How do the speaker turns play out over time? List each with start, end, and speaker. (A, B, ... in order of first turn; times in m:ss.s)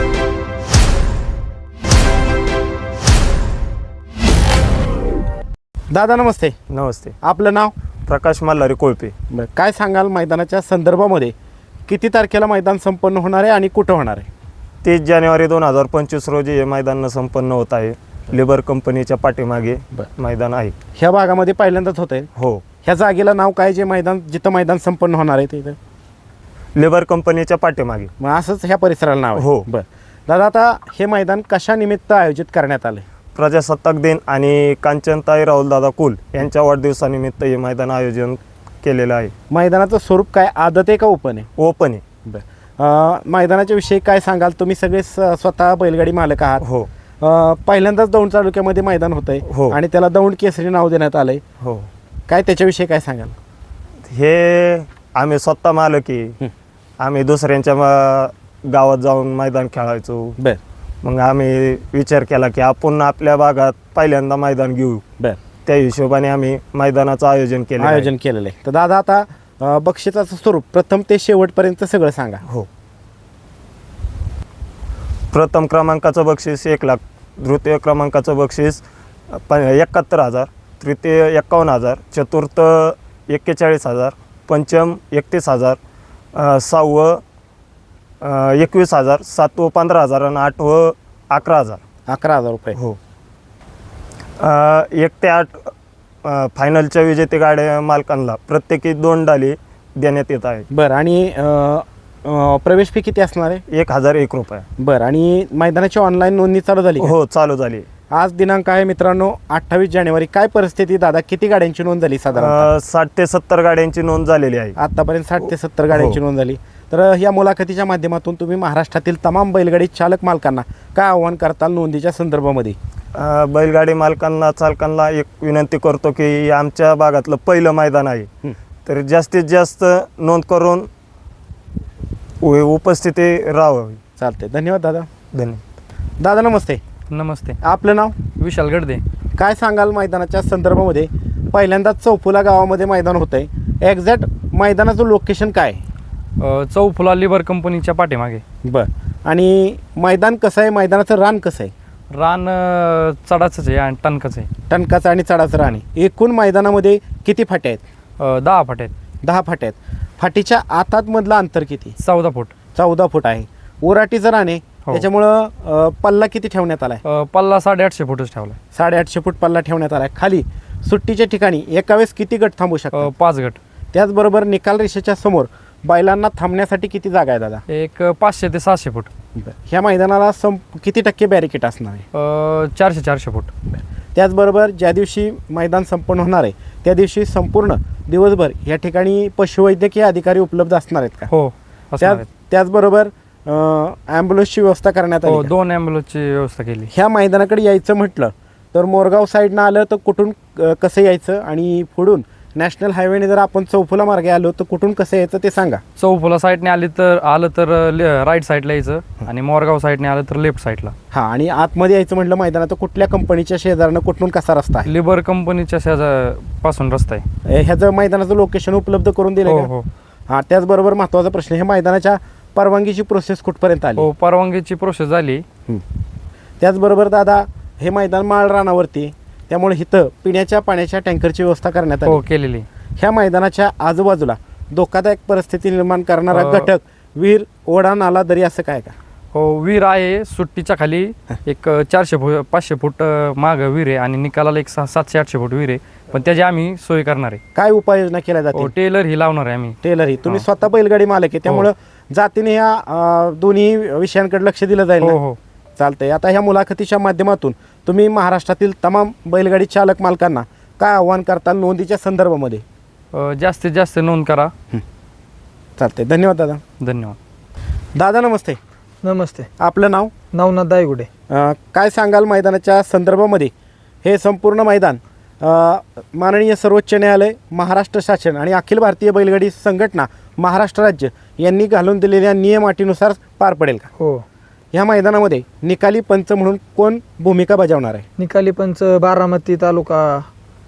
0:05.9-0:06.6 A
0:06.7-0:07.2 B
0:07.2-0:07.7 A
0:08.1-0:09.1 B
0:09.3-0:11.3 A
0:11.9-0:14.3 A
0:14.8-0:20.7 B
0:21.0-0:22.3 A
0:22.4-0:22.6 B
0:22.8-0:25.8 A
0:26.8-0:28.1 B
0:28.2-0:33.0 A
0:29.4-0:29.7 B
0:33.3-0:39.3 B
0:39.5-0:41.5 A
0:41.6-0:42.0 B
0:42.2-0:46.6 A
0:46.6-0:46.9 B
0:47.2-0:51.4 A
0:49.5-0:49.8 B
0:51.6-0:51.9 B
0:52.3-0:53.3 A
0:54.1-0:56.4 B
0:57.0-1:00.4 B
1:01.0-1:05.0 B
1:05.6-1:08.1 B
1:07.8-1:12.4 A
1:15.3-1:25.8 B
1:26.3-1:27.2 B
1:28.2-1:31.8 B
1:32.1-1:32.8 A
1:34.4-1:35.7 B
1:36.2-1:40.7 B
1:40.7-1:43.6 A
1:43.7-1:44.6 B
1:44.8-1:47.1 A
1:47.0-1:47.9 B
1:48.1-1:52.7 A
1:52.3-1:54.7 B
1:54.8-2:02.8 A
1:55.9-1:56.2 B
2:03.1-2:08.3 B
2:08.8-2:10.9 B
2:12.4-2:14.0 B
2:14.2-2:15.1 A
2:15.3-2:15.6 B
2:16.2-2:16.8 A
2:17.1-2:17.6 C
2:17.6-2:18.1 A
2:18.4-2:19.0 C
2:19.4-2:25.8 A
2:26.4-2:28.4 C
2:28.6-2:31.7 A
2:32.1-2:34.5 C
2:34.7-2:37.8 A
2:38.2-2:38.9 C
2:39.2-2:42.0 A
2:42.0-2:42.5 C
2:42.7-2:47.0 A
2:47.0-2:48.6 C
2:48.7-2:53.1 A
2:52.9-2:53.6 C
2:53.9-2:57.6 A
2:57.7-2:59.1 C
2:59.4-3:02.0 A
3:02.1-3:03.5 C
3:03.7-3:11.3 A
3:11.3-3:12.3 C
3:12.0-3:15.5 A
3:15.2-3:16.9 C
3:16.9-3:25.8 A
3:26.0-3:30.9 C
3:31.1-3:34.9 A
3:34.8-3:37.2 C
3:37.4-3:39.7 A
3:39.4-3:39.9 C
3:40.3-3:44.1 A
3:44.0-3:45.4 C
3:46.6-3:52.2 A
3:52.0-3:52.7 C
3:53.0-3:58.9 A
3:56.3-3:56.7 C
3:59.3-4:07.4 C
4:07.5-4:08.7 A
4:08.5-4:10.4 C
4:09.8-4:15.2 A
4:15.0-4:15.4 C
4:15.8-4:22.6 A
4:23.1-4:24.5 C
4:25.8-4:26.6 A
4:26.8-4:27.2 C
4:28.0-4:28.6 A
4:29.0-4:29.5 D
4:29.6-4:30.1 A
4:30.3-4:31.1 D
4:31.3-4:33.5 A
4:34.0-4:43.9 A
4:44.0-4:44.2 D
4:44.7-4:48.0 A
4:48.2-4:50.3 D